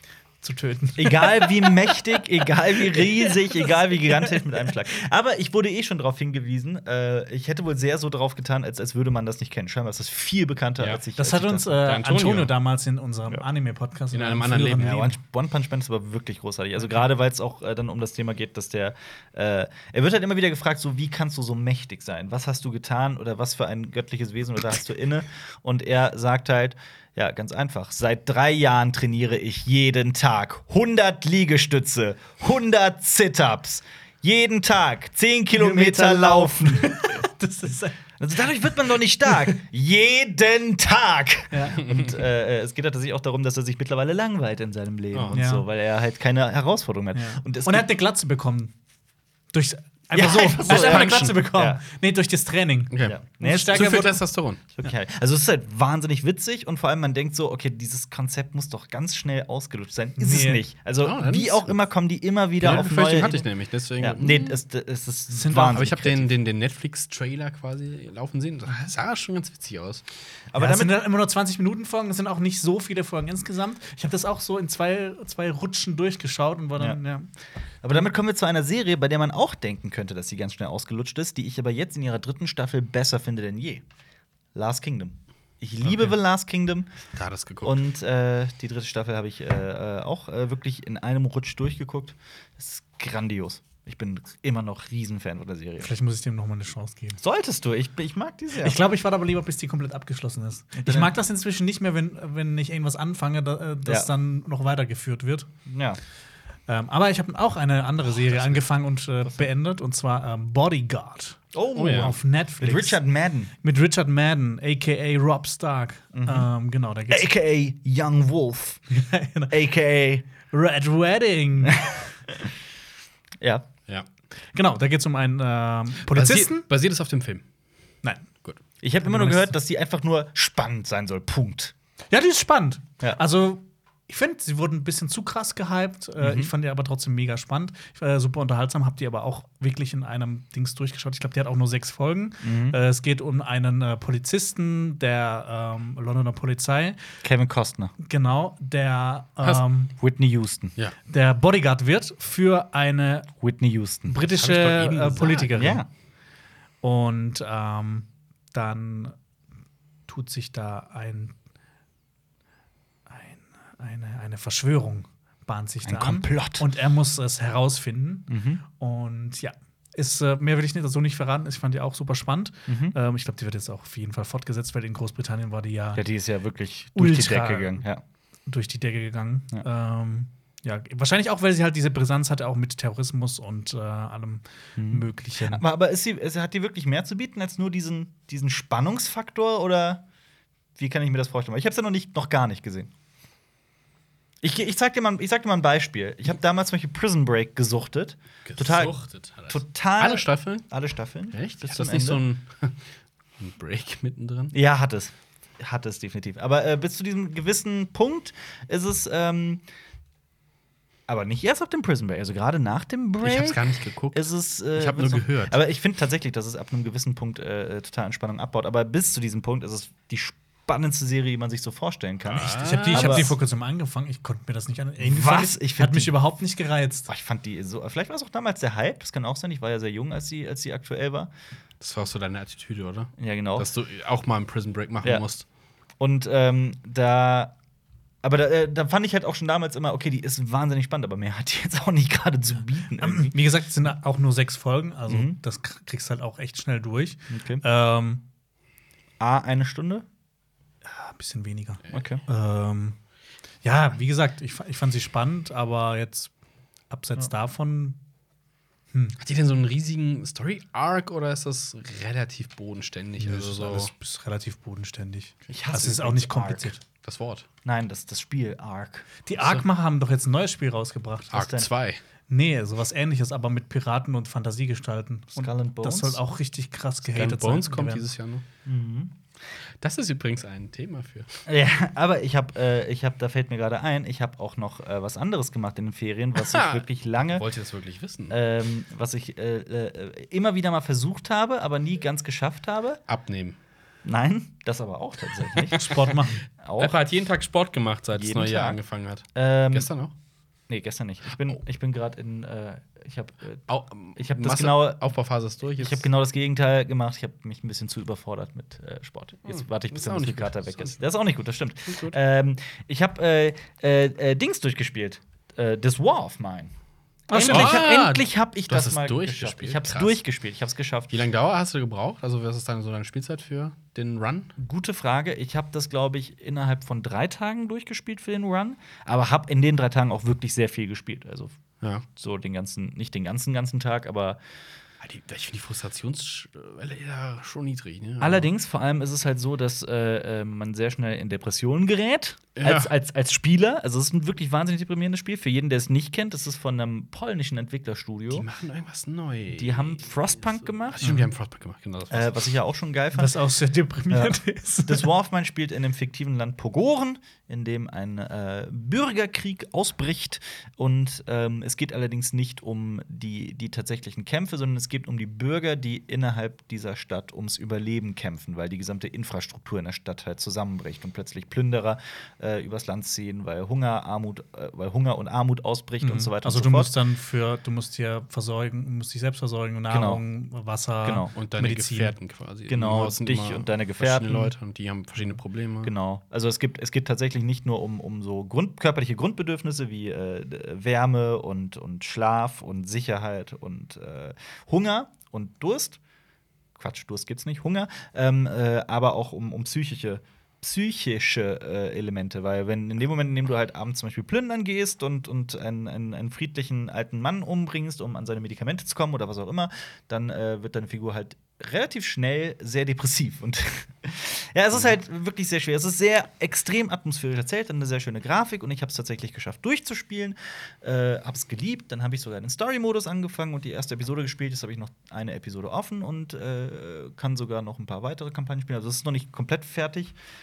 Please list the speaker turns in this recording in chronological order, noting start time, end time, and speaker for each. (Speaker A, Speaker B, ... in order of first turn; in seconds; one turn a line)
Speaker A: 0.4-1.9
Speaker B: 1.0-11.9
Speaker A: 2.9-4.4
Speaker A: 11.2-15.2
Speaker C: 11.8-12.5
Speaker C: 14.1-14.9
Speaker B: 14.8-37.2
Speaker A: 35.5-38.0
Speaker B: 38.2-47.9
Speaker A: 39.3-39.5
Speaker A: 41.5-41.8
Speaker C: 41.8-42.1
Speaker A: 45.3-45.6
Speaker A: 47.1-48.7
Speaker A: 49.5-54.2
Speaker B: 50.1-51.8
Speaker C: 50.7-51.4
Speaker C: 52.9-54.6
Speaker B: 53.0-54.1
Speaker B: 54.7-63.5
Speaker A: 60.2-60.6
Speaker C: 61.0-61.7
Speaker C: 62.6-64.6
Speaker B: 64.0-66.3
Speaker A: 65.3-65.8
Speaker C: 65.5-70.0
Speaker B: 70.5-71.0
Speaker A: 70.6-77.3
Speaker B: 77.8-83.8
Speaker B: 84.5-86.9
Speaker C: 87.1-87.9
Speaker B: 87.6-95.9
Speaker A: 95.8-97.2
Speaker B: 97.2-98.8
Speaker A: 98.6-105.5
Speaker B: 100.8-101.1
Speaker B: 105.7-106.0
Speaker A: 106.7-113.0
Speaker B: 111.5-113.5
Speaker C: 111.7-112.1
Speaker A: 113.6-117.3
Speaker B: 116.1-116.5
Speaker B: 117.1-118.8
Speaker A: 118.9-119.6
Speaker B: 119.5-120.2
Speaker A: 120.5-122.1
Speaker B: 121.7-122.0
Speaker B: 123.4-123.7
Speaker A: 124.5-126.7
Speaker C: 126.1-127.4
Speaker B: 128.8-131.7
Speaker A: 129.0-129.5
Speaker A: 132.1-147.0
Speaker B: 136.2-136.5
Speaker B: 142.4-142.8
Speaker B: 147.2-147.9
Speaker A: 148.0-149.9
Speaker B: 150.0-150.8
Speaker A: 151.1-153.3
Speaker B: 153.4-154.2
Speaker A: 154.1-155.8
Speaker C: 154.3-155.7
Speaker B: 155.5-155.9
Speaker A: 156.8-159.2
Speaker A: 160.1-161.3
Speaker A: 163.1-176.0
Speaker B: 165.8-166.7
Speaker B: 168.3-168.6
Speaker B: 172.7-172.9
Speaker B: 175.9-178.0
Speaker A: 176.9-177.8
Speaker A: 178.5-185.6
Speaker B: 184.8-190.0
Speaker B: 190.8-192.9
Speaker B: 194.4-202.2
Speaker C: 198.4-200.7
Speaker C: 201.3-204.5
Speaker B: 204.5-209.6
Speaker B: 211.1-223.3
Speaker C: 213.2-215.6
Speaker C: 222.2-223.3
Speaker A: 222.4-227.1
Speaker B: 225.0-226.2
Speaker B: 227.1-231.3
Speaker C: 231.8-235.4
Speaker B: 233.2-233.7
Speaker B: 236.0-237.5
Speaker B: 238.2-243.4
Speaker A: 243.0-248.2
Speaker B: 245.1-245.3
Speaker B: 247.3-247.6
Speaker B: 249.2-250.0
Speaker A: 250.8-253.0
Speaker B: 251.9-252.2
Speaker A: 253.6-256.3
Speaker A: 256.9-258.0
Speaker C: 259.2-263.9
Speaker A: 263.2-266.8
Speaker B: 265.5-266.8
Speaker C: 267.0-267.4
Speaker B: 267.6-269.1
Speaker A: 269.2-271.5
Speaker C: 269.4-269.6
Speaker C: 271.3-272.0
Speaker B: 271.3-271.7
Speaker A: 272.3-278.0
Speaker B: 275.4-276.2
Speaker C: 277.1-278.4
Speaker B: 278.6-279.1
Speaker C: 279.8-281.3
Speaker B: 281.4-287.4
Speaker C: 286.4-288.4
Speaker B: 288.3-293.0
Speaker C: 293.1-293.6
Speaker B: 294.0-295.9
Speaker A: 295.7-296.4
Speaker B: 296.6-296.9
Speaker C: 296.8-300.1
Speaker B: 298.1-298.8
Speaker B: 299.3-299.9
Speaker B: 300.7-305.0
Speaker C: 303.7-306.1
Speaker B: 305.8-316.7
Speaker C: 309.5-311.0
Speaker C: 311.9-312.2
Speaker A: 317.3-317.8
Speaker B: 317.3-321.2
Speaker C: 317.4-320.2
Speaker C: 321.1-324.5
Speaker B: 324.6-331.6
Speaker B: 332.1-334.4
Speaker C: 335.0-338.5
Speaker B: 338.2-348.5
Speaker C: 342.6-342.9
Speaker C: 348.3-352.5
Speaker B: 349.5-351.0
Speaker B: 352.1-353.3
Speaker A: 353.1-355.1
Speaker B: 354.1-376.9
Speaker A: 376.0-382.1
Speaker B: 379.9-380.2
Speaker B: 381.0-381.3
Speaker C: 381.3-385.9
Speaker B: 382.7-384.5
Speaker B: 385.8-396.0
Speaker B: 396.8-430.1